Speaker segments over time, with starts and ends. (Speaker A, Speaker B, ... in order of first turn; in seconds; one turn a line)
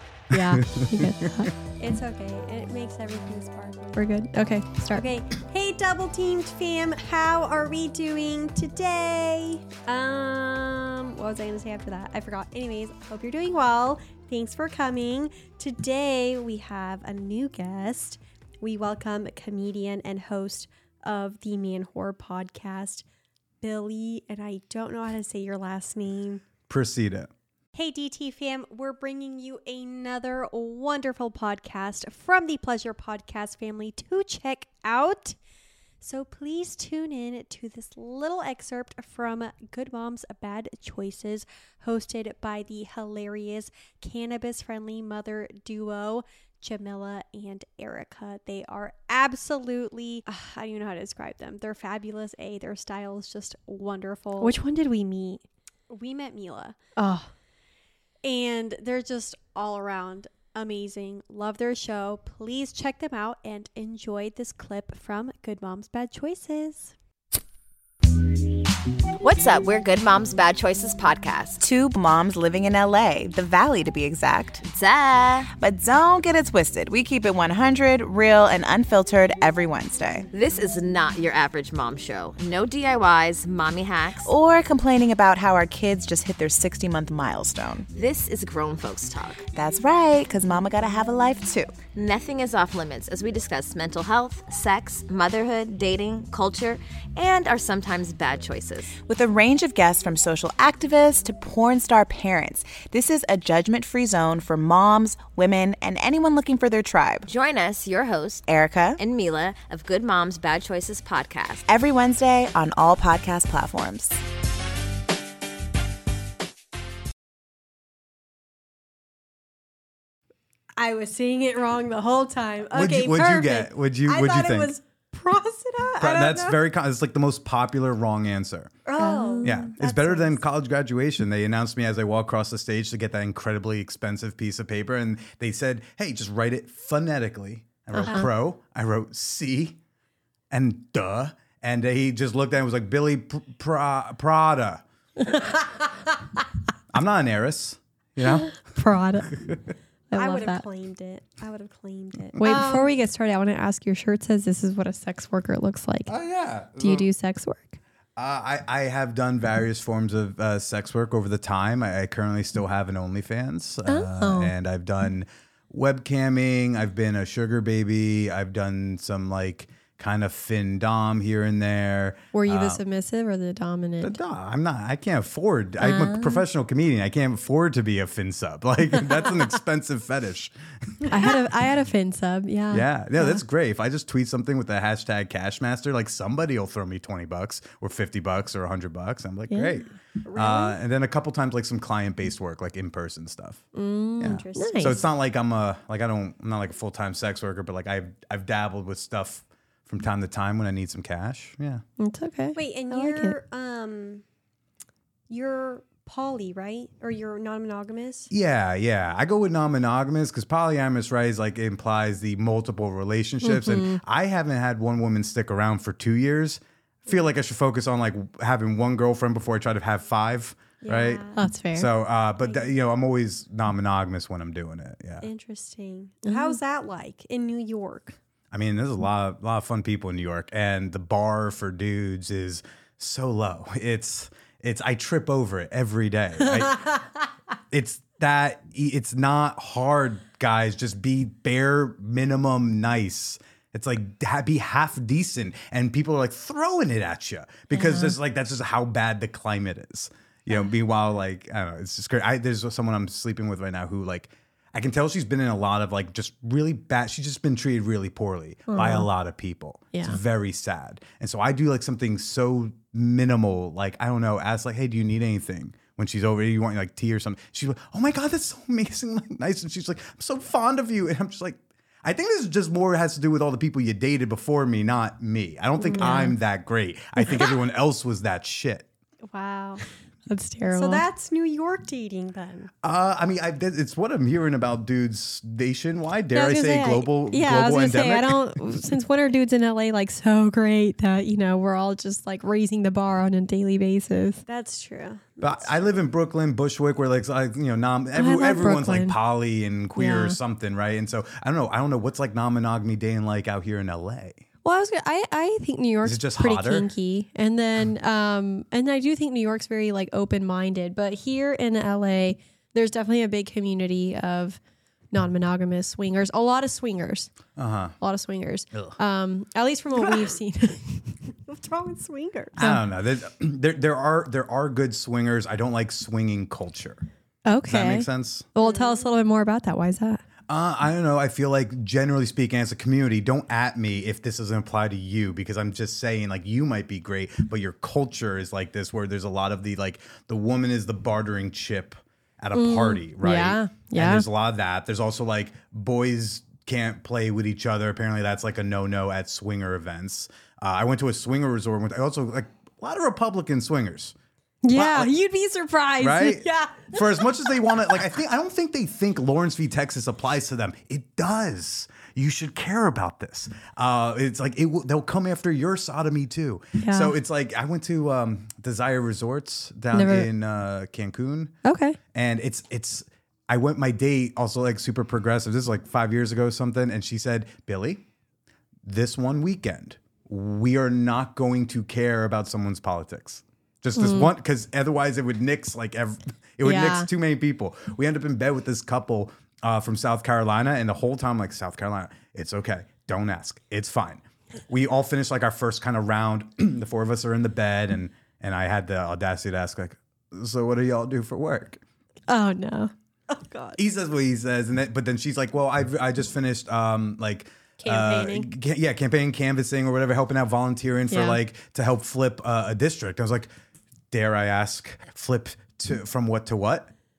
Speaker A: 0.3-1.5
Speaker B: 0.3-1.5
Speaker C: 1.8-4.0
Speaker A: 4.0-5.0
Speaker C: 4.9-23.0
Speaker C: 23.6-26.4
Speaker B: 26.7-27.3
Speaker C: 27.7-35.4
Speaker C: 36.0-54.6
Speaker A: 54.4-55.4
Speaker C: 55.9-56.8
Speaker A: 57.0-57.3
Speaker C: 58.2-66.9
Speaker D: 69.2-71.6
Speaker E: 71.6-74.7
Speaker D: 74.7-75.5
Speaker E: 75.5-80.3
Speaker D: 80.3-84.3
Speaker E: 84.2-87.9
Speaker D: 87.9-89.4
Speaker E: 89.5-91.8
Speaker D: 91.9-98.9
Speaker E: 99.0-107.3
Speaker D: 107.3-108.5
Speaker E: 108.5-109.0
Speaker D: 109.0-111.6
Speaker E: 111.7-114.2
Speaker C: 120.8-126.6
Speaker B: 122.7-124.7
Speaker B: 126.0-128.7
Speaker C: 128.8-130.3
Speaker A: 129.0-129.7
Speaker B: 129.4-139.8
Speaker A: 137.9-138.3
Speaker B: 140.5-144.8
Speaker A: 145.3-145.6
Speaker B: 146.9-148.5
Speaker A: 148.2-149.4
Speaker B: 149.3-149.6
Speaker A: 150.1-150.6
Speaker C: 150.1-152.9
Speaker A: 152.4-156.1
Speaker B: 156.1-157.1
Speaker A: 156.8-157.8
Speaker B: 158.2-172.8
Speaker A: 163.8-164.5
Speaker A: 172.3-174.2
Speaker B: 174.0-181.4
Speaker A: 175.8-176.4
Speaker A: 181.1-183.4
Speaker B: 182.7-193.6
Speaker A: 189.5-189.9
Speaker C: 190.2-190.8
Speaker A: 193.7-195.0
Speaker B: 194.2-201.8
Speaker C: 194.2-195.0
Speaker A: 202.0-203.3
Speaker C: 202.5-204.2
Speaker C: 205.3-208.3
Speaker B: 208.3-225.3
Speaker A: 213.4-214.0
Speaker C: 220.8-221.4
Speaker A: 221.3-221.9
Speaker C: 225.2-228.2
Speaker A: 226.2-226.6
Speaker B: 228.5-236.9
Speaker B: 237.7-278.9
Speaker A: 247.7-248.1
Speaker A: 258.7-259.1
Speaker A: 259.9-260.2
Speaker A: 275.8-276.4
Speaker C: 279.3-279.8
Speaker A: 280.3-281.0
Speaker C: 280.7-282.7
Speaker B: 282.8-288.6
Speaker A: 286.3-294.4
Speaker C: 294.5-296.0
Speaker B: 295.4-304.4
Speaker A: 298.1-299.1
Speaker A: 299.9-300.4
Speaker A: 304.6-314.6
Speaker B: 306.0-306.9
Speaker A: 315.1-317.3
Speaker B: 317.6-317.9
Speaker A: 318.0-321.1
Speaker C: 320.0-320.2
Speaker C: 321.4-322.6
Speaker B: 322.6-327.1
Speaker A: 327.4-330.2
Speaker B: 327.7-328.5
Speaker C: 328.6-329.1
Speaker B: 330.5-354.1
Speaker A: 342.5-344.3
Speaker A: 354.6-356.8
Speaker B: 354.7-355.1
Speaker B: 356.0-371.6
Speaker A: 366.8-367.1
Speaker A: 369.9-370.3
Speaker A: 371.6-372.0
Speaker B: 372.1-378.1
Speaker B: 378.8-401.8
Speaker A: 383.9-384.3
Speaker A: 386.6-387.1
Speaker A: 402.3-402.9
Speaker C: 403.3-403.8
Speaker B: 403.8-413.5
Speaker A: 407.8-408.5
Speaker A: 411.1-411.4
Speaker B: 414.1-416.9